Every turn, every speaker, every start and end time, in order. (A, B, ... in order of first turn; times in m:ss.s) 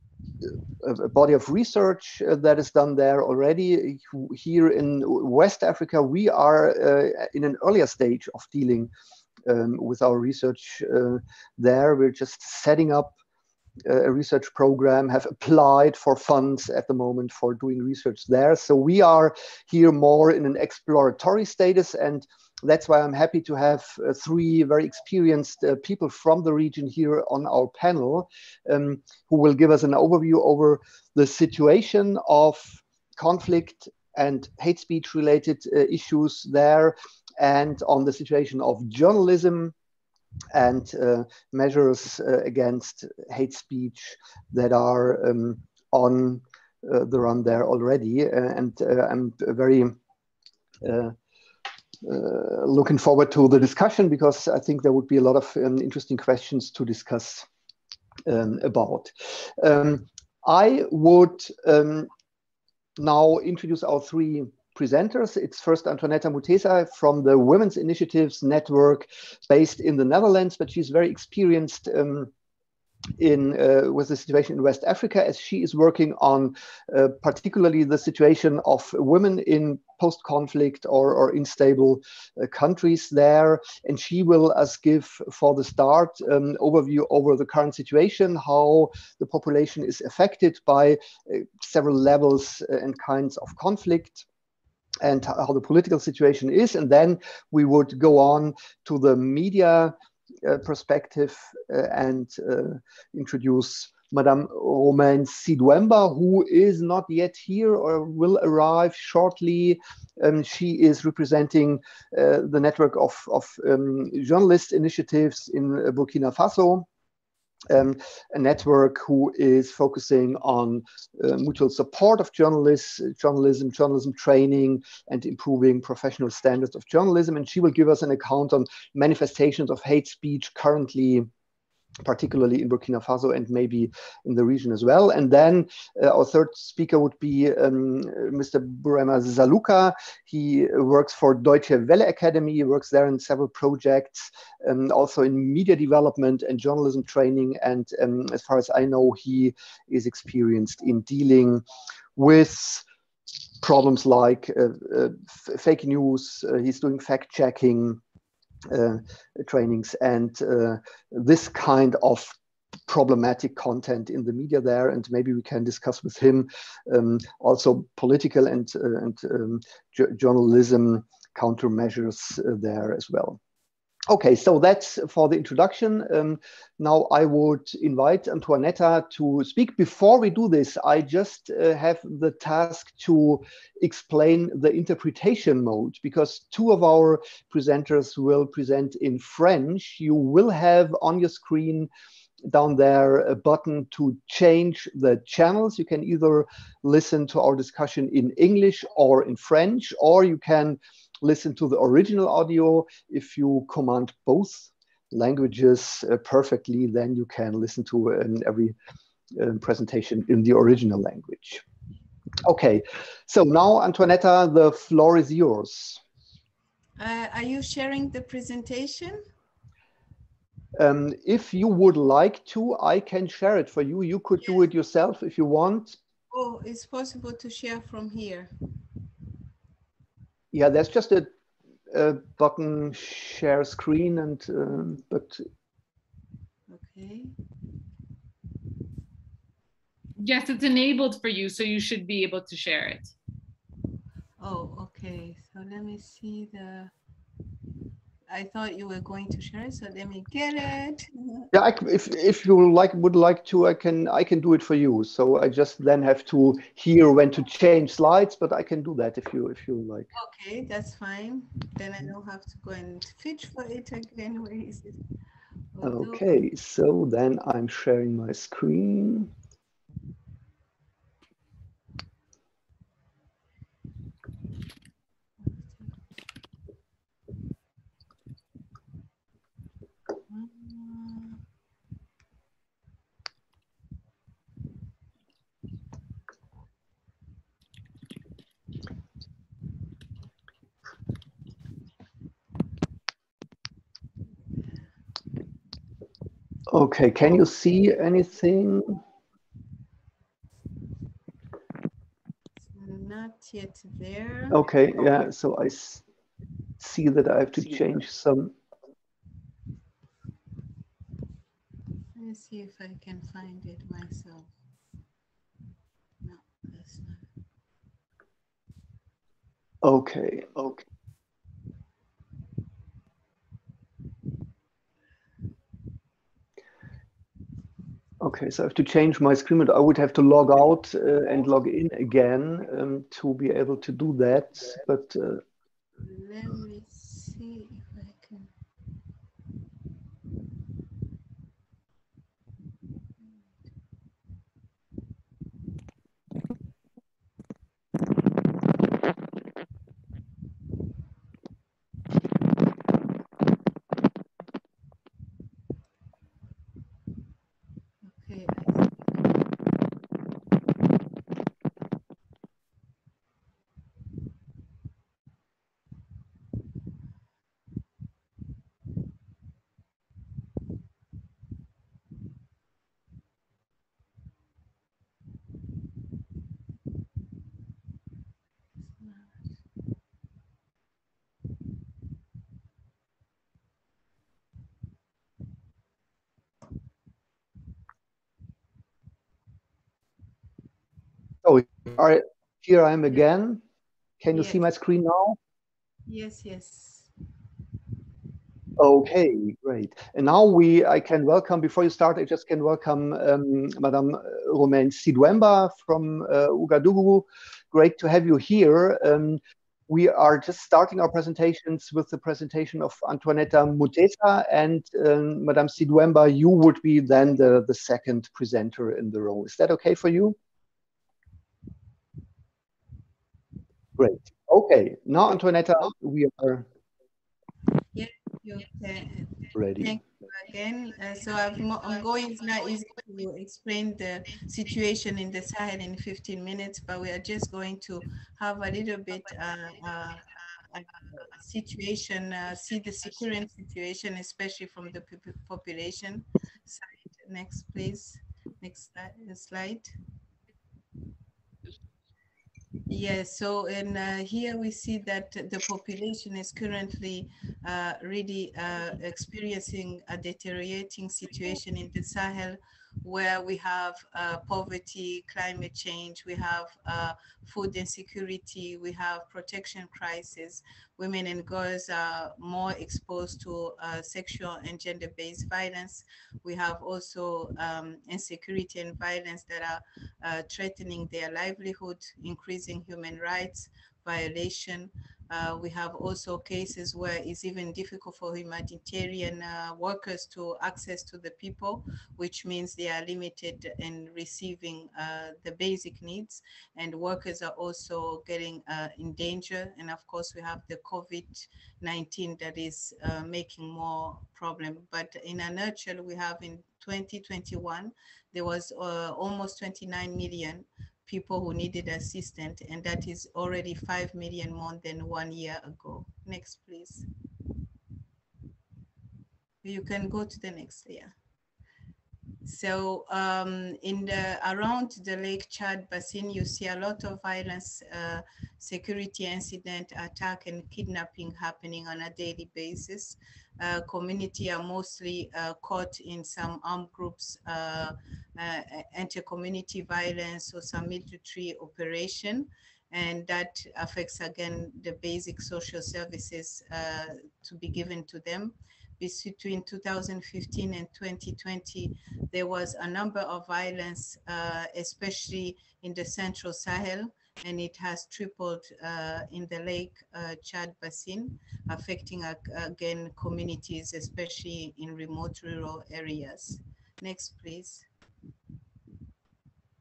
0:00.4-0:08.9 A
0:09.4-0:13.1 A
0:13.8-0:39.7 A
0:40.5-0:50.0 A
0:50.8-0:51.1 A
0:52.0-0:57.5 A
0:58.3-1:02.1 A
1:03.0-1:12.3 A
1:13.2-1:34.2 A
1:35.0-1:39.9 A
1:40.4-1:56.8 A
1:57.7-2:11.3 A
2:12.0-2:31.6 A
2:32.2-2:32.8 A
2:33.6-2:38.0 A
2:38.7-2:42.4 A
2:42.9-2:53.4 A
2:54.1-3:11.9 A
3:12.4-3:28.7 A
3:29.3-3:31.6 A
3:32.4-3:36.0 A
3:37.0-3:39.2 B
3:40.8-3:46.0 A
3:46.3-3:48.5 B
3:50.5-3:51.3 A
3:51.9-3:55.4 A
3:56.7-3:57.3 B
4:00.2-4:03.1 C
4:04.4-4:06.9 B
4:08.3-4:11.5 B
4:11.5-4:20.1 A
4:20.1-4:25.0 B
4:25.7-4:26.3 B
4:25.8-4:29.3 A
4:35.4-4:36.0 B
4:40.3-4:41.4 B
4:56.7-4:59.0 A
5:02.6-5:04.7 B
5:04.5-5:06.0 A
5:06.8-5:08.5 A
5:12.1-5:14.5 B
5:16.2-5:17.3 B
5:19.8-5:20.8 A
5:28.2-5:35.4 A
5:36.0-5:38.5 B
5:58.0-5:59.3 B
6:19.0-6:19.3 B
6:31.4-6:33.6 A
6:34.2-6:35.4 A
6:34.3-6:34.6 B
6:36.1-6:37.1 B
6:38.8-7:00.4 A
7:04.0-7:06.7 A
7:07.9-7:29.9 B
7:09.5-7:10.0 A
7:32.9-8:37.1 B
8:39.6-8:41.1 B
8:42.4-9:27.9 B